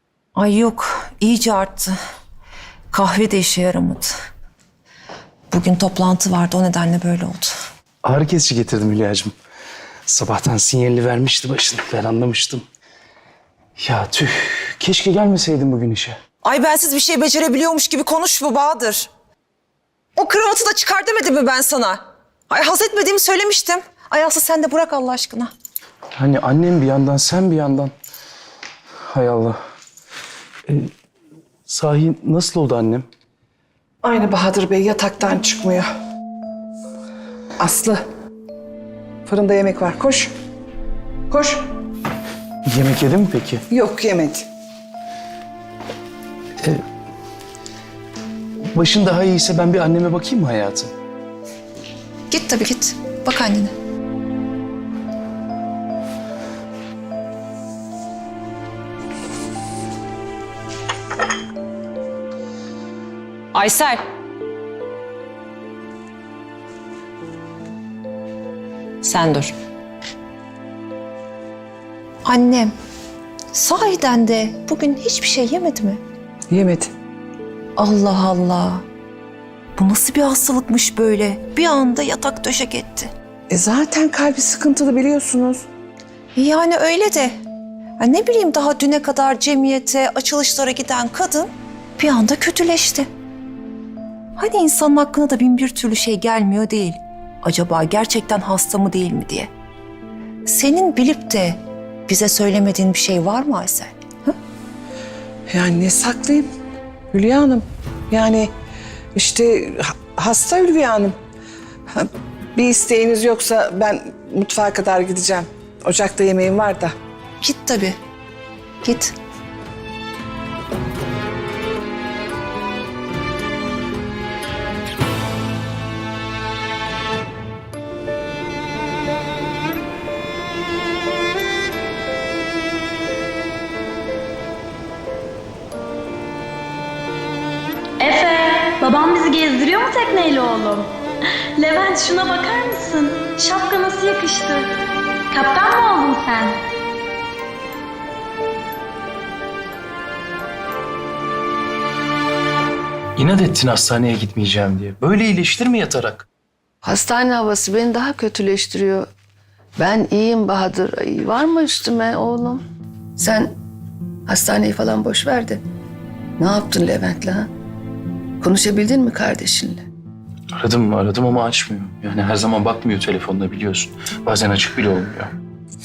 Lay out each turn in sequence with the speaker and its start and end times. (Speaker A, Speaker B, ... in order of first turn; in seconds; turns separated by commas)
Speaker A: 0.3-1.9, Speaker A: 2.9-4.1, Speaker A: 5.5-7.5, Speaker B: 8.0-9.3, Speaker B: 10.1-12.6, Speaker B: 13.8-16.1, Speaker A: 16.4-19.1, Speaker A: 20.1-25.5, Speaker B: 26.2-27.9, Speaker B: 29.1-29.6, Speaker B: 31.7-33.0, Speaker C: 34.0-35.9, Speaker C: 37.6-38.0, Speaker C: 39.2-40.3, Speaker C: 41.3-41.6, Speaker B: 42.7-43.6, Speaker C: 43.7-44.5, Speaker B: 48.7-50.9, Speaker A: 52.3-53.7, Speaker A: 63.5-64.0, Speaker A: 69.0-69.5, Speaker A: 72.2-72.7, Speaker A: 73.5-76.0, Speaker C: 76.5-76.9, Speaker A: 77.8-78.8, Speaker A: 79.8-83.1, Speaker C: 83.5-85.7, Speaker A: 86.3-87.3, Speaker A: 88.0-93.1, Speaker A: 94.3-99.5, Speaker A: 100.5-104.3, Speaker C: 105.5-106.5, Speaker C: 107.1-108.5, Speaker C: 109.1-111.1, Speaker C: 111.9-116.9, Speaker A: 117.4-118.0, Speaker A: 118.8-119.1, Speaker D: 138.0-140.9, Speaker D: 141.6-144.7, Speaker D: 145.3-146.6, Speaker B: 153.2-156.2, Speaker E: 156.8-159.1, Speaker E: 159.8-162.6, Speaker E: 163.2-163.5, Speaker E: 164.3-165.6, Speaker E: 166.4-167.5, Speaker E: 168.4-169.8, Speaker B: 170.5-175.3